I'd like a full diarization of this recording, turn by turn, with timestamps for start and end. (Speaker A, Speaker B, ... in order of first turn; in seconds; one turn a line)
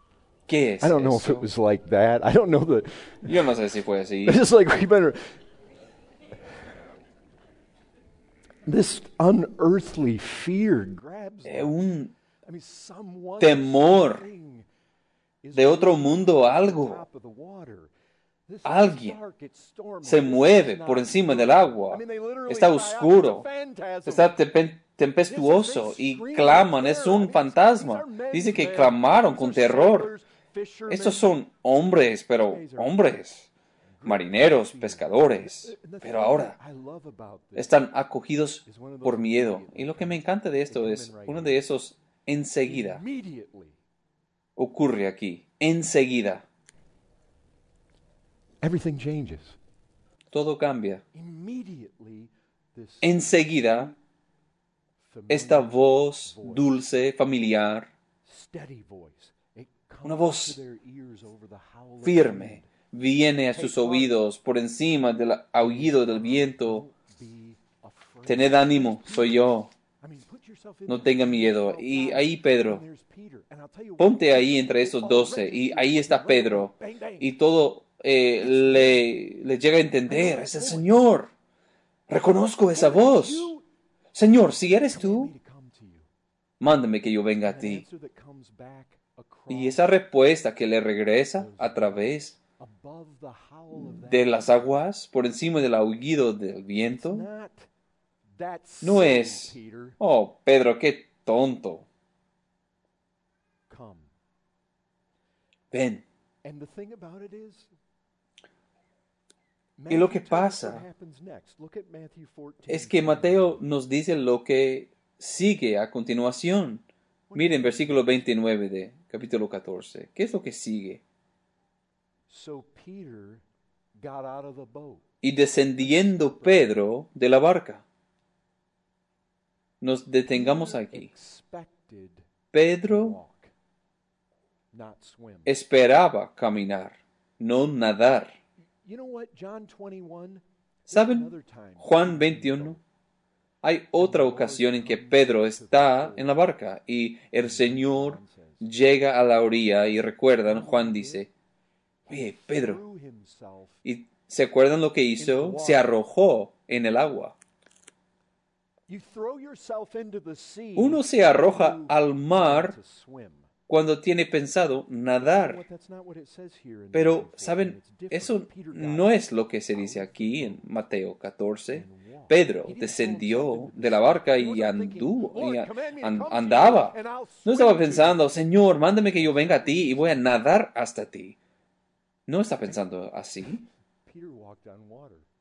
Speaker A: 0.5-1.5
Speaker B: 0.8-3.5
Speaker A: 3.2-4.4
Speaker B: 4.2-5.4
Speaker B: 8.7-11.8
Speaker A: 11.4-12.1
Speaker B: 12.5-14.7
Speaker A: 13.4-14.3
Speaker B: 15.4-17.9
Speaker A: 15.5-17.0
Speaker B: 18.5-24.4
Speaker A: 18.6-19.2
Speaker A: 20.0-23.4
Speaker A: 24.1-30.1
Speaker B: 25.3-31.3
Speaker A: 30.9-33.5
Speaker B: 32.4-33.0
Speaker B: 34.0-37.8
Speaker A: 34.0-36.6
Speaker A: 37.5-43.0
Speaker B: 38.6-41.6
Speaker B: 42.6-43.8
Speaker A: 44.6-46.4
Speaker B: 48.6-49.6
Speaker A: 50.3-51.0
Speaker B: 51.1-53.2
Speaker A: 53.0-53.9
Speaker B: 55.0-56.7
Speaker A: 55.3-57.9
Speaker B: 58.2-62.8
Speaker A: 60.0-60.6
Speaker A: 62.0-66.8
Speaker B: 63.5-64.2
Speaker B: 65.6-77.3
Speaker A: 68.2-69.7
Speaker A: 70.9-72.8
Speaker A: 74.0-81.3
Speaker B: 78.3-79.3
Speaker B: 80.0-81.1
Speaker A: 82.1-83.5
Speaker B: 82.7-83.7
Speaker A: 84.1-85.3
Speaker B: 84.5-86.1
Speaker A: 86.6-87.8
Speaker B: 87.4-89.9
Speaker A: 89.5-92.4
Speaker B: 91.3-94.8
Speaker A: 93.7-97.3
Speaker B: 96.9-97.7
Speaker B: 98.4-100.0
Speaker A: 98.8-101.9
Speaker B: 103.7-104.1
Speaker A: 105.7-106.0
Speaker B: 106.4-107.7
Speaker B: 109.8-113.7
Speaker A: 109.9-110.8
Speaker A: 112.7-121.0
Speaker B: 117.3-118.4
Speaker B: 122.3-123.4
Speaker B: 124.0-125.0
Speaker A: 125.2-127.8
Speaker B: 125.8-126.8
Speaker A: 129.8-131.1
Speaker B: 130.3-132.2
Speaker A: 132.5-133.2
Speaker B: 132.8-133.5
Speaker B: 134.7-135.6
Speaker A: 135.5-138.4
Speaker B: 138.8-142.8
Speaker A: 140.9-142.8
Speaker A: 143.6-151.3
Speaker B: 144.0-146.4
Speaker B: 147.4-148.7
Speaker B: 149.6-151.3
Speaker B: 152.1-153.8
Speaker A: 152.1-152.8
Speaker A: 153.8-157.4
Speaker B: 155.2-156.0
Speaker B: 158.9-163.5
Speaker A: 160.8-162.8
Speaker A: 163.7-165.6
Speaker B: 165.1-169.2
Speaker A: 166.9-181.4
Speaker B: 169.7-170.7
Speaker B: 171.7-178.3
Speaker B: 178.9-180.5
Speaker A: 182.3-183.6
Speaker B: 184.1-185.2